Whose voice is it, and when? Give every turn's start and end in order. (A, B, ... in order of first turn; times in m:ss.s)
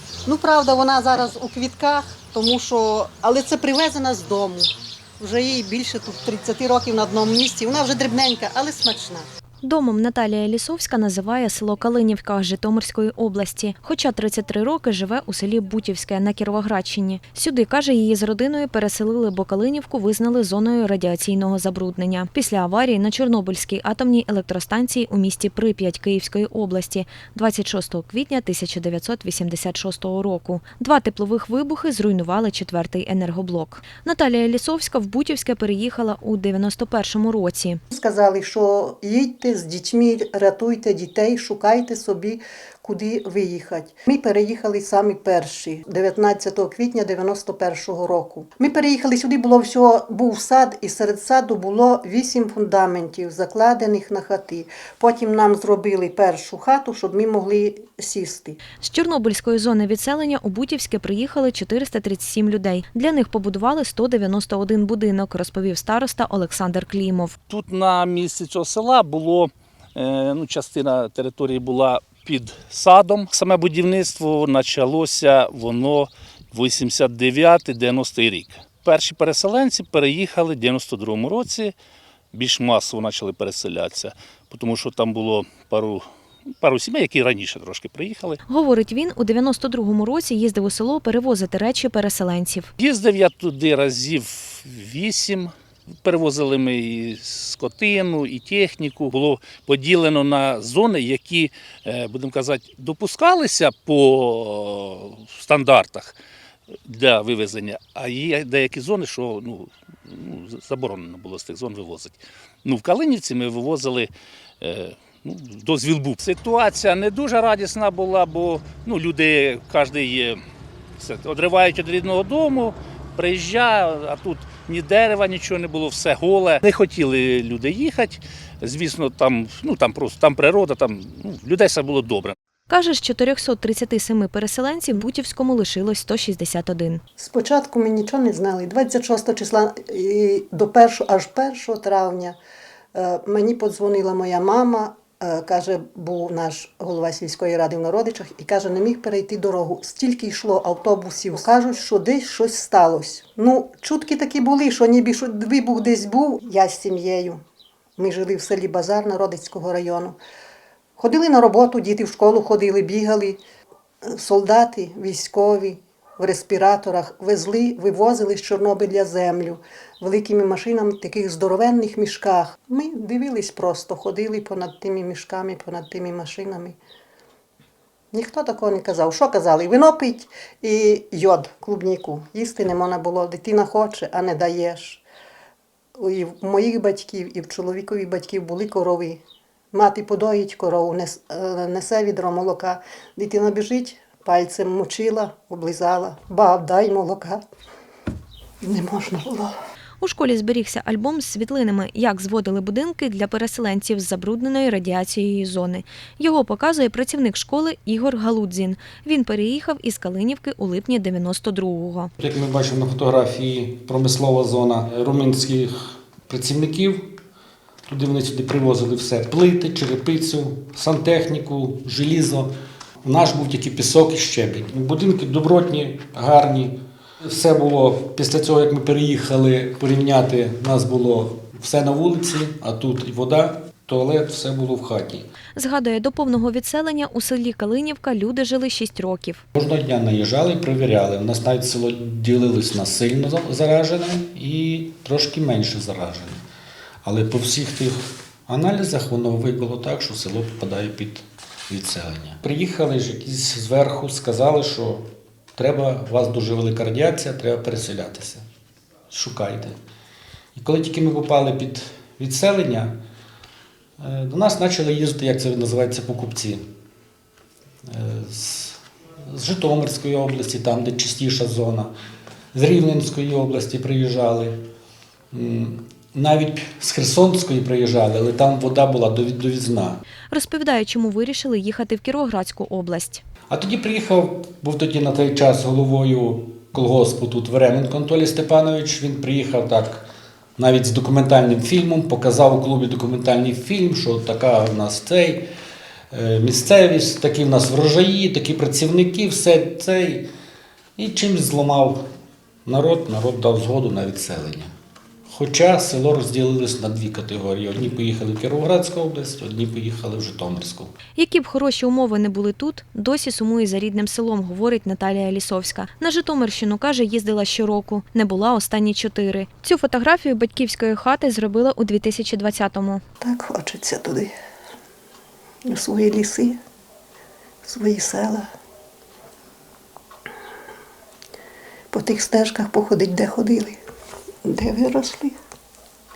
0:00.2-0:09.2 A
0:09.6-0:37.8 B
0:37.9-0:58.6 A
0:58.8-1:07.4 B
1:07.5-1:21.7 C
1:22.3-1:26.0 C
1:26.6-1:28.4 C
1:28.5-1:32.7 B
1:32.8-1:35.5 C
1:36.0-1:46.1 C
1:46.8-2:00.4 C
2:01.0-2:12.3 C
2:12.7-2:17.0 B
2:17.2-2:22.4 A
2:22.9-2:37.4 A
2:38.0-2:40.2 A
2:41.0-2:43.4 A
2:44.0-2:56.8 A
2:58.1-3:05.0 A
3:06.0-3:09.2 A
3:09.7-3:17.4 A
3:18.6-3:19.5 A
3:20.0-3:32.1 B
3:32.2-3:37.1 D
3:37.9-3:42.5 D
3:43.0-3:55.2 D
3:55.6-3:59.4 B
3:59.5-4:06.4 D
4:07.0-4:18.4 D
4:19.1-4:19.8 D
4:20.5-4:23.0 D
4:24.0-4:26.6 D
4:27.8-4:31.9 D
4:32.5-4:34.6 D
4:35.3-4:40.0 D
4:40.3-4:43.2 B
4:43.5-4:55.5 D
4:56.1-5:00.3 D
5:01.0-5:02.0 D
5:02.6-5:04.7 D
5:05.3-5:10.9 D
5:11.2-5:23.0 B
5:23.2-5:24.3 A
5:25.6-5:26.6 A
5:27.6-5:28.5 A
5:31.9-5:33.8 A
5:34.4-5:35.4 A